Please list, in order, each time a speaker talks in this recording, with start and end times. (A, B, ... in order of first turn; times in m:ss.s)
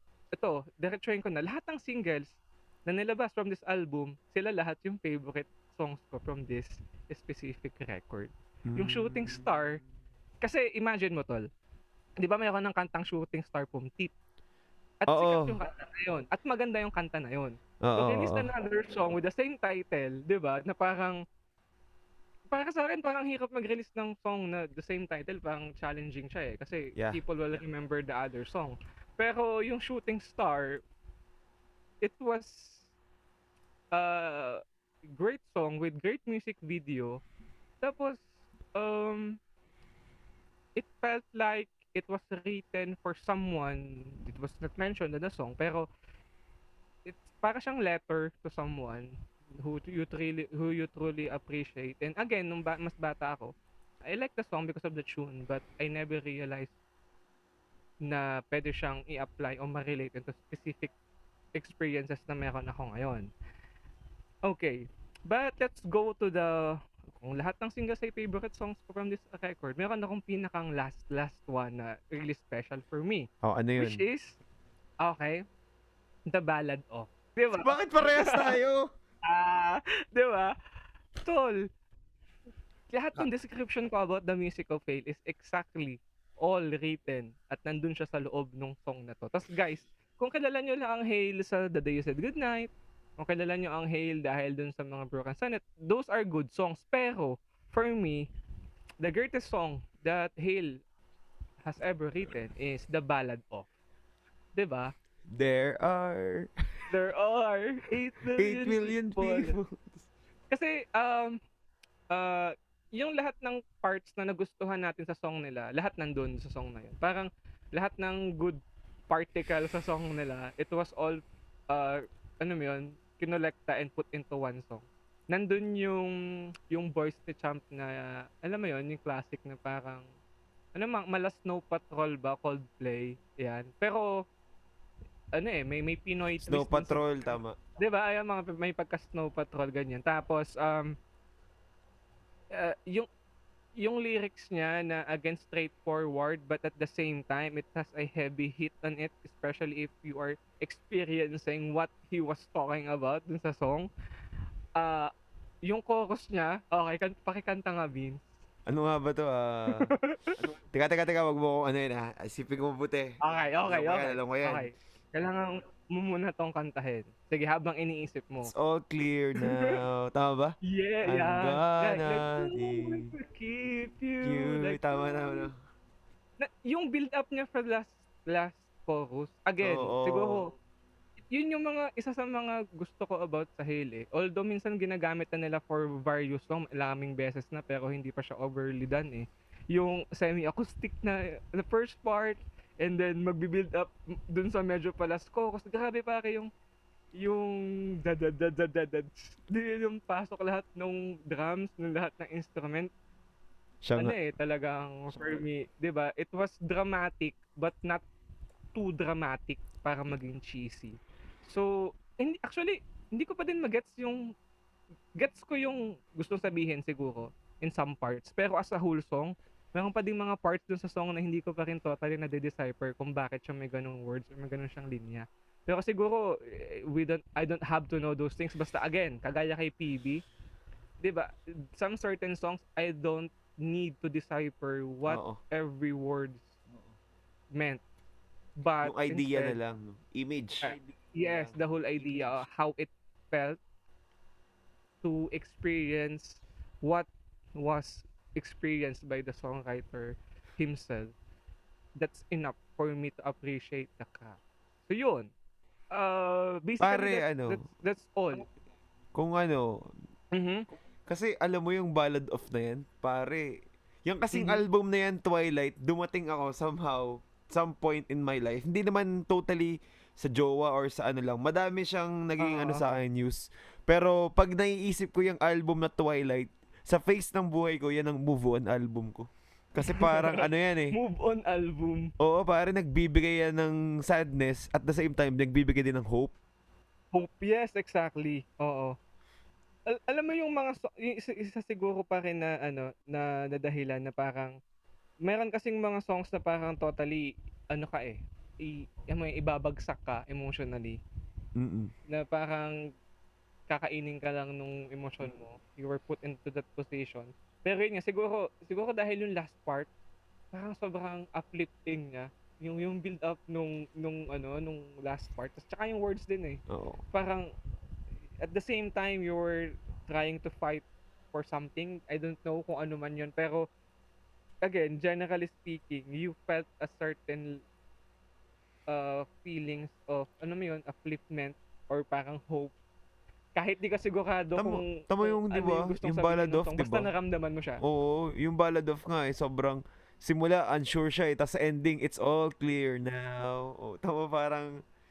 0:00.3-0:09.8 A
0:08.7-0:09.5 B
0:10.4-0:11.4 A
0:12.2-0:14.1 A
0:15.0-0:21.2 A
0:15.1-0:15.6 B
0:17.8-0:18.5 B
0:22.5-0:30.8 A
0:32.0-0:32.9 A
0:33.9-0:37.2 A
0:37.8-0:39.4 A
0:40.8-0:45.8 A
0:47.0-0:53.5 A
0:54.0-0:56.7 A
0:58.0-1:00.9 A
1:01.5-1:03.3 A
1:04.5-1:14.4 A
1:13.4-1:14.0 B
1:15.0-1:15.4 A
1:16.3-1:18.5 A
1:17.6-1:18.9 B
1:19.2-1:20.5 A
1:21.2-1:21.6 A
1:22.9-1:38.3 A
1:39.0-1:40.8 A
1:41.6-1:43.7 A
1:44.6-1:44.9 A
1:45.3-1:46.5 B
1:46.9-1:49.6 A
1:48.4-1:50.1 B
1:50.5-1:51.4 A
1:52.1-2:06.2 A
2:06.7-2:10.1 A
2:10.8-2:14.2 A
2:15.3-2:20.9 A
2:16.4-2:17.6 B
2:22.5-2:23.1 A
2:23.8-2:33.9 A
2:34.8-2:35.1 A
2:35.6-2:38.2 A
2:38.7-2:44.7 B
2:39.9-2:40.4 A
2:43.2-2:48.5 A
2:48.4-2:50.5 B
2:49.5-2:49.8 A
2:50.7-2:55.5 A
2:51.0-2:53.1 B
2:54.2-2:55.5 B
2:56.4-3:00.5 A
2:59.6-3:00.4 B
3:01.3-3:16.5 A
3:17.2-3:22.9 A
3:23.8-3:24.1 B
3:24.0-3:28.0 A
3:25.1-3:25.4 B
3:28.7-3:34.2 A
3:35.2-3:50.2 A
3:51.0-3:56.5 A
3:55.1-3:55.4 B
3:57.5-3:57.8 A
3:58.6-3:59.6 A
3:58.8-4:02.4 B
4:00.6-4:03.6 A
4:05.0-4:11.1 A
4:12.0-4:15.3 A
4:15.9-4:18.5 A
4:16.8-4:17.6 B
4:19.1-4:19.8 B
4:20.3-4:20.7 A
4:21.1-4:41.0 B
4:24.3-4:24.6 A
4:32.4-4:32.8 A
4:39.8-4:42.1 A
4:42.2-4:46.3 B
4:47.1-4:48.9 A
4:50.1-4:54.6 A
4:55.2-5:01.0 A
5:01.6-5:01.9 B
5:02.1-5:02.8 A
5:03.7-5:09.9 A
5:10.5-5:17.5 A
5:16.7-5:17.0 B
5:18.4-5:23.6 A
5:24.6-5:27.6 A
5:28.9-5:32.7 A
5:33.6-5:37.8 A
5:34.6-5:37.1 B
5:37.8-5:44.8 B